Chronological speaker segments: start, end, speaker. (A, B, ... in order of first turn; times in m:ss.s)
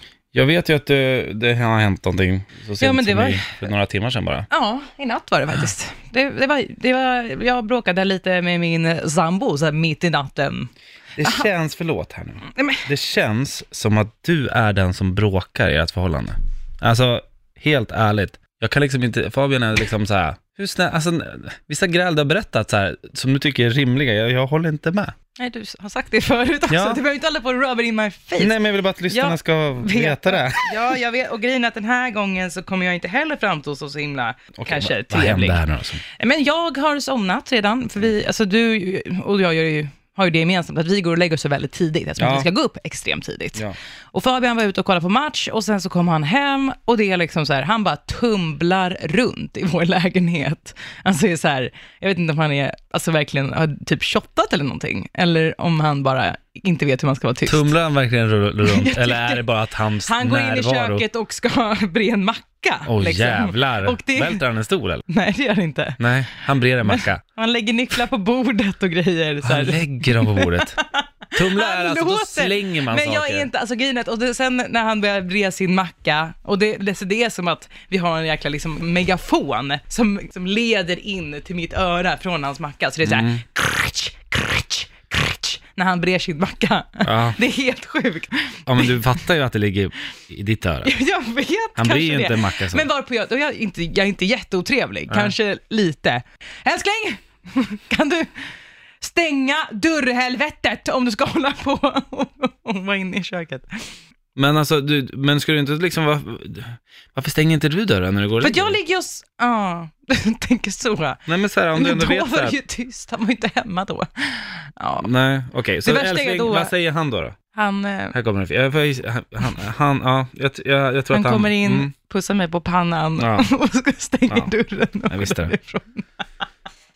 0:00.3-0:04.5 A
0:02.8-0:03.5 B
0:04.5-0:10.7 B
0:11.2-0:25.1 A
0:11.2-0:11.5 B
0:12.5-0:12.8 B
0:25.4-0:43.6 B
0:26.7-0:27.0 A
0:28.4-0:31.0 A
0:34.5-0:36.0 A
0:42.2-0:42.5 A
0:44.1-0:57.7 B
0:57.4-1:01.0 A
0:58.6-1:04.4 B
1:02.8-1:05.0 A
1:05.0-1:29.0 B
1:06.0-1:07.2 A
1:09.4-1:10.8 A
1:11.3-1:13.5 A
1:23.0-1:23.4 A
1:27.0-1:27.4 A
1:28.7-1:30.9 A
1:30.8-1:38.5 B
1:31.8-1:32.8 A
1:35.1-1:35.3 A
1:39.0-1:43.7 B
1:44.4-1:48.8 A
1:48.4-1:51.2 B
1:51.3-1:52.6 A
1:51.7-1:55.1 B
1:55.0-1:57.4 A
1:55.8-1:56.7 B
1:57.5-1:58.1 B
1:58.1-2:01.9 A
2:01.1-2:06.4 B
2:03.2-2:03.5 A
2:05.1-2:05.5 A